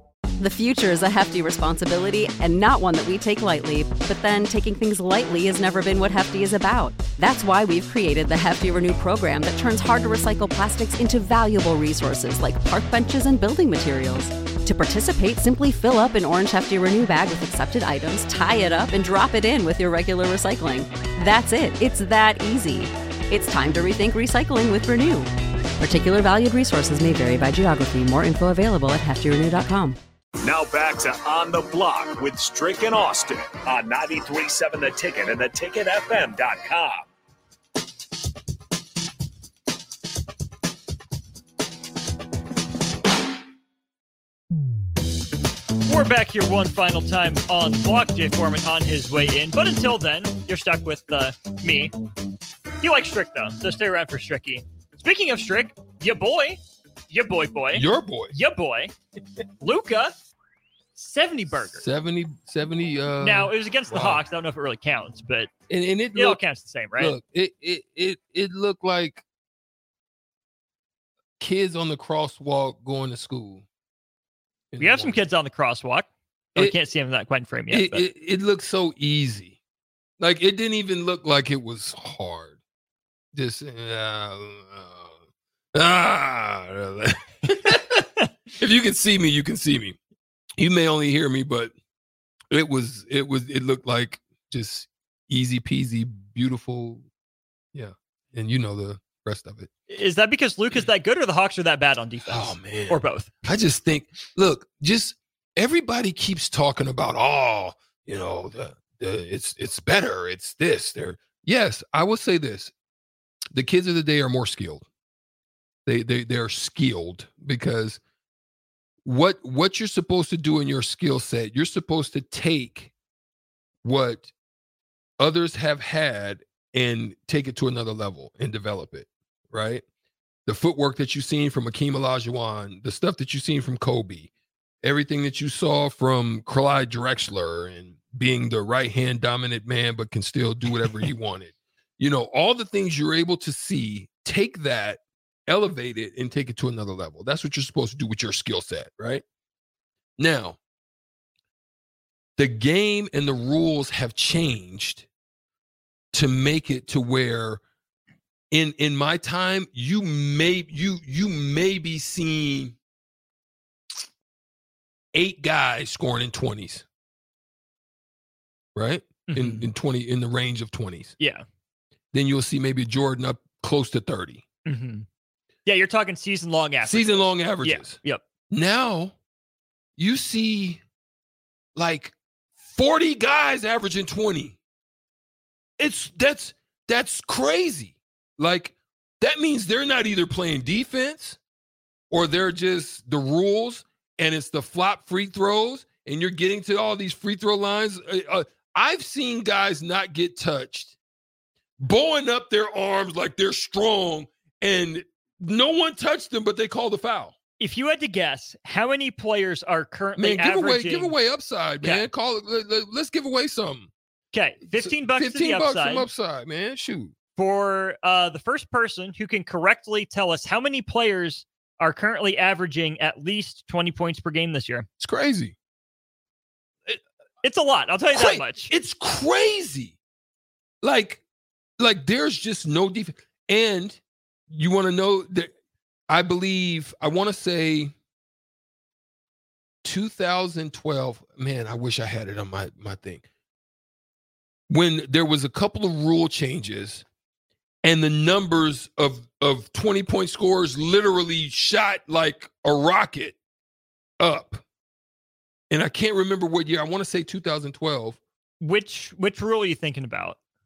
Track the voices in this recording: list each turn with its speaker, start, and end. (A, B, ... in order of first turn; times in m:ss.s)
0:00.4-0:30.0 A
0:30.4-0:37.1 B
0:45.9-0:51.9 C
0:52.8-0:58.9 C
0:57.7-0:58.4 D
0:59.6-1:00.2 C
1:01.0-1:01.9 C
1:01.7-1:04.2 D
1:03.2-1:05.5 C
1:05.7-1:06.4 D
1:06.2-1:07.2 C
1:07.0-1:09.2 D
1:11.4-1:13.6 D
1:14.7-1:15.2 D
1:14.8-1:18.0 C
1:17.7-1:19.6 D
1:20.2-1:22.6 D
1:23.4-1:25.1 D
1:25.7-1:28.0 D
1:28.6-1:30.0 D
1:30.6-1:31.7 D
1:32.5-1:37.1 D
1:37.7-1:39.7 D
1:39.9-1:43.3 C
1:42.2-1:52.7 D
1:53.5-1:54.8 D
1:55.9-1:58.0 D
1:59.0-2:02.9 D
2:03.8-2:04.3 D
2:05.2-2:09.8 D
2:10.5-2:14.3 D
2:14.8-2:29.2 D
2:30.2-2:30.6 D
2:32.4-2:35.1 D
2:36.1-2:37.6 D
2:38.5-2:42.8 D
2:45.1-2:46.8 D
2:48.8-2:51.2 D
2:49.3-2:49.7 C
2:51.2-2:51.4 C
2:52.1-2:54.4 D
2:54.7-2:55.1 C
2:55.7-2:58.2 C
2:56.8-2:59.2 D
3:00.0-3:00.8 D
3:01.8-3:02.2 D
3:02.7-3:04.6 D
3:05.8-3:11.4 D
3:12.1-3:21.0 D
3:21.8-3:27.3 D
3:27.6-3:31.2 C
3:30.2-3:33.9 D
3:31.8-3:32.1 C
3:34.3-3:36.1 C
3:34.7-3:37.1 D
3:37.4-3:44.9 C
3:45.0-3:45.6 D
3:47.4-3:48.7 C
3:48.1-3:50.0 D
3:50.8-3:51.2 D
3:51.8-3:55.5 D
3:56.1-3:57.9 D
3:59.8-4:03.2 D
4:04.7-4:07.0 D
4:07.8-4:13.4 D
4:14.2-4:14.6 D
4:15.7-4:18.2 D
4:18.6-4:20.4 C